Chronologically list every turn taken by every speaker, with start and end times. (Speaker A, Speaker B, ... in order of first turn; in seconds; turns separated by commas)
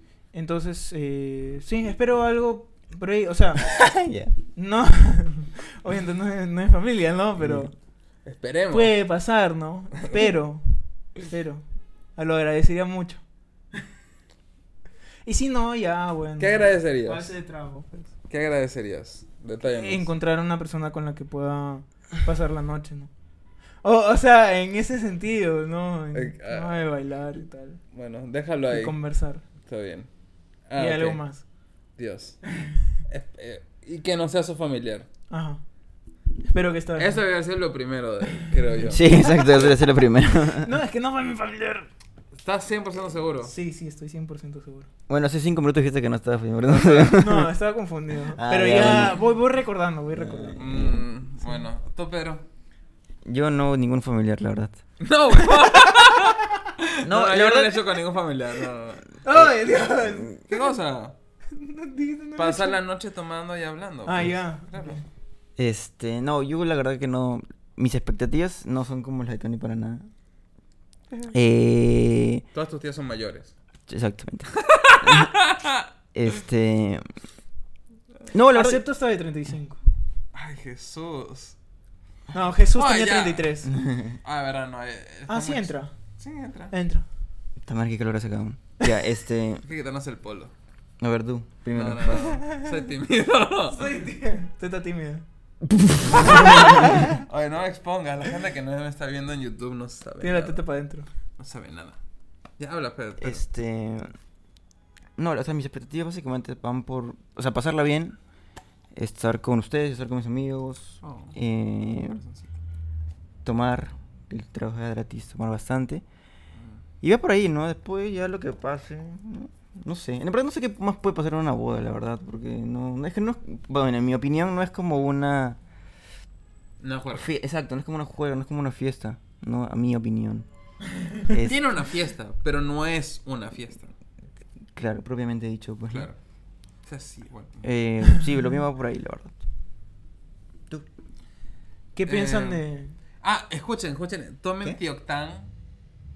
Speaker A: 0.3-3.8, Speaker B: 3.6-4.3, Speaker A: 4.5-7.7, Speaker B: 7.4-7.7, Speaker C: 8.2-8.9, Speaker A: 8.7-11.7, Speaker A: 12.2-13.2, Speaker A: 15.3-17.9, Speaker C: 16.4-17.3, Speaker C: 18.2-20.1, Speaker A: 19.7-23.1, Speaker A: 23.8-27.8, Speaker C: 26.1-26.9, Speaker C: 27.9-29.0, Speaker A: 28.7-29.4, Speaker C: 29.6-30.1, Speaker C: 30.7-31.2, Speaker A: 30.8-31.4, Speaker C: 32.0-32.4, Speaker C: 33.1-35.1, Speaker A: 35.3-35.6, Speaker A: 36.5-37.2, Speaker C: 37.0-39.8, Speaker B: 38.9-40.7, Speaker A: 40.6-41.9, Speaker C: 42.4-43.5, Speaker A: 43.4-44.9, Speaker B: 45.1-47.5, Speaker C: 46.8-47.0, Speaker A: 47.0-50.6, Speaker B: 48.3-49.2, Speaker B: 50.1-51.0, Speaker C: 50.6-52.4, Speaker B: 53.2-54.8, Speaker C: 55.0-59.2, Speaker B: 57.0-58.0, Speaker A: 59.2-60.6, Speaker B: 60.1-60.4, Speaker C: 60.5-61.1, Speaker A: 61.5-62.8, Speaker C: 62.4-65.0, Speaker A: 64.1-65.0, Speaker B: 65.6-70.1, Speaker B: 71.3-72.4, Speaker C: 72.5-73.5, Speaker B: 73.9-75.4, Speaker C: 74.6-75.9, Speaker B: 76.1-77.0, Speaker B: 78.3-78.8, Speaker A: 78.5-79.8, Speaker C: 80.3-81.6, Speaker A: 82.3-83.7, Speaker C: 82.8-83.7, Speaker B: 83.7-84.2, Speaker C: 84.2-86.7, Speaker A: 85.3-85.9, Speaker A: 86.7-87.0, Speaker B: 87.6-89.6, Speaker C: 89.7-90.5, Speaker B: 91.0-92.4, Speaker C: 91.7-93.9, Speaker A: 93.7-95.2, Speaker B: 95.6-97.0, Speaker C: 96.1-100.6, Speaker A: 100.2-101.1, Speaker C: 101.4-102.0, Speaker C: 102.6-103.4, Speaker B: 103.2-104.1, Speaker B: 105.2-108.2, Speaker B: 109.0-112.2, Speaker C: 111.0-111.4, Speaker C: 112.0-112.5, Speaker B: 113.4-116.0, Speaker B: 117.0-125.6, Speaker C: 126.8-127.3, Speaker B: 127.1-130.5, Speaker B: 131.3-131.6, Speaker C: 131.3-133.9, Speaker B: 134.8-136.1, Speaker C: 136.9-137.6, Speaker B: 137.6-139.4, Speaker A: 141.9-143.0, Speaker C: 142.1-142.6, Speaker C: 143.2-145.5